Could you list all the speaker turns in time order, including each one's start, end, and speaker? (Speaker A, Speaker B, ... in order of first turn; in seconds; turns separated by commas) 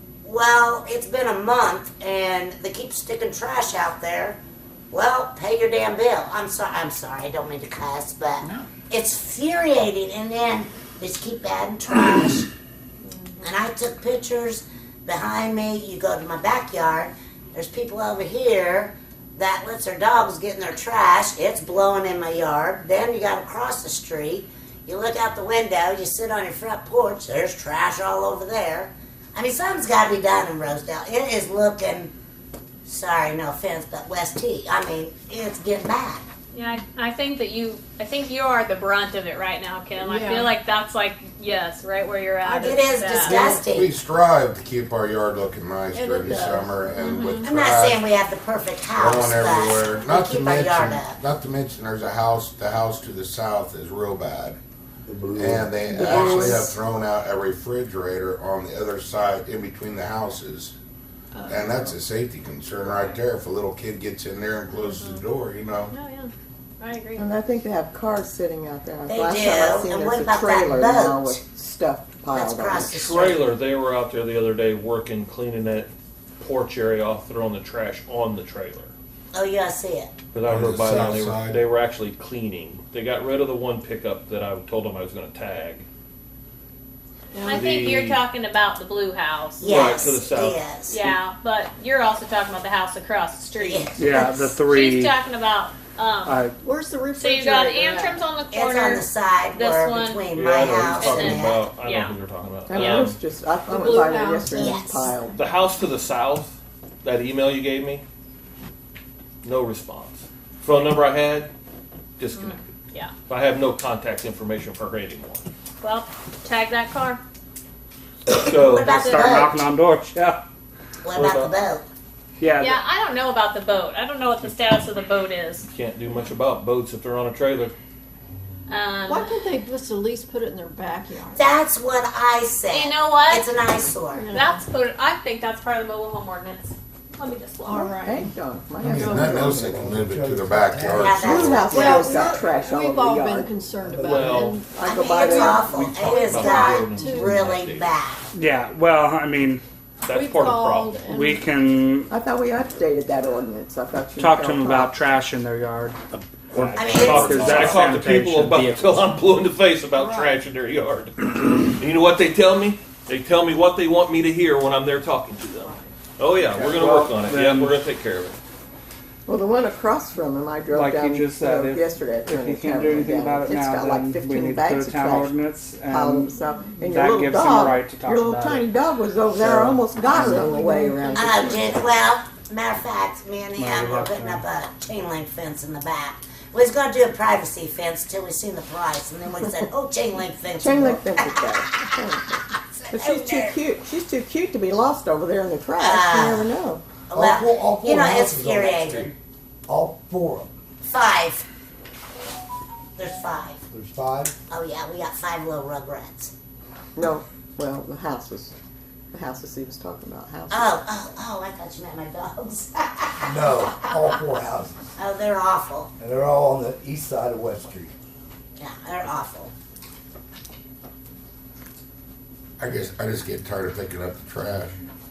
Speaker A: 0.2-4.4, Speaker A: 4.9-12.5, Speaker B: 13.0-13.5, Speaker A: 13.4-32.1, Speaker A: 32.9-36.2, Speaker B: 36.5-43.5, Speaker C: 40.0-40.5, Speaker C: 42.5-43.6, Speaker A: 42.5-43.9, Speaker D: 43.4-48.0, Speaker C: 46.0-47.4, Speaker A: 47.4-51.2, Speaker D: 49.0-54.6, Speaker E: 55.1-56.6, Speaker D: 55.4-60.7, Speaker A: 56.0-56.8, Speaker C: 61.4-61.7, Speaker D: 61.5-65.9, Speaker B: 64.8-65.2, Speaker B: 65.9-67.3, Speaker F: 67.2-73.1, Speaker A: 69.1-71.4, Speaker A: 72.3-73.5, Speaker G: 72.9-78.9, Speaker A: 79.3-80.2, Speaker G: 80.3-85.8, Speaker D: 80.5-81.6, Speaker C: 87.3-87.7, Speaker B: 87.4-90.0, Speaker G: 87.5-88.2, Speaker A: 89.6-91.0, Speaker G: 89.6-90.6, Speaker B: 90.9-96.4, Speaker A: 93.6-94.0, Speaker H: 94.0-95.1, Speaker H: 96.3-96.6, Speaker C: 96.6-98.2, Speaker B: 97.2-100.3, Speaker A: 98.5-101.6, Speaker G: 100.3-103.2, Speaker B: 100.8-102.2, Speaker F: 102.7-105.4, Speaker B: 102.8-103.1, Speaker C: 103.7-105.3, Speaker A: 104.5-105.1, Speaker G: 105.3-108.0, Speaker G: 109.4-111.5, Speaker G: 112.2-112.6, Speaker B: 112.3-113.1, Speaker G: 113.3-115.5, Speaker B: 115.8-117.2, Speaker G: 118.3-119.0, Speaker A: 118.5-119.6, Speaker H: 118.7-120.4, Speaker B: 118.9-119.4, Speaker A: 121.0-121.8, Speaker G: 121.1-121.5, Speaker H: 122.4-122.8, Speaker B: 122.6-125.7, Speaker G: 125.7-127.7, Speaker B: 128.7-129.4, Speaker C: 129.1-131.5, Speaker A: 131.3-134.3, Speaker B: 132.7-133.5, Speaker C: 134.1-134.6, Speaker B: 134.3-137.9, Speaker C: 137.6-139.4, Speaker F: 137.7-139.9, Speaker D: 138.8-141.9, Speaker E: 139.0-142.4, Speaker A: 140.9-142.4, Speaker F: 141.2-143.5, Speaker C: 141.6-144.7, Speaker E: 143.8-144.6, Speaker G: 144.1-144.6, Speaker F: 144.7-145.9, Speaker A: 144.8-148.3, Speaker C: 145.3-145.7, Speaker G: 145.6-147.9, Speaker C: 146.2-147.4, Speaker H: 148.3-149.6, Speaker G: 150.0-150.9, Speaker C: 150.1-151.5, Speaker H: 151.0-152.1, Speaker F: 152.1-154.9, Speaker H: 154.2-156.0, Speaker H: 156.5-158.9, Speaker G: 156.5-168.4, Speaker A: 156.8-157.8, Speaker F: 157.2-157.7, Speaker H: 166.6-167.8, Speaker F: 166.8-167.1, Speaker F: 169.3-175.3, Speaker H: 170.7-178.7, Speaker F: 175.9-181.7, Speaker C: 176.4-176.8, Speaker H: 179.4-180.6, Speaker C: 180.1-181.8, Speaker A: 181.2-191.4, Speaker H: 183.6-184.5, Speaker F: 190.6-192.4, Speaker A: 192.7-193.6, Speaker F: 192.9-197.0, Speaker A: 195.8-196.5, Speaker A: 197.1-199.1, Speaker E: 197.1-199.2, Speaker E: 199.7-200.5, Speaker A: 200.8-201.5, Speaker A: 203.0-203.6, Speaker E: 203.7-204.3, Speaker A: 204.5-206.3, Speaker F: 207.0-208.5, Speaker F: 209.1-210.8, Speaker A: 210.5-214.2, Speaker E: 213.2-214.9, Speaker A: 215.0-215.9, Speaker E: 216.0-217.9, Speaker A: 218.6-219.5, Speaker D: 222.6-224.8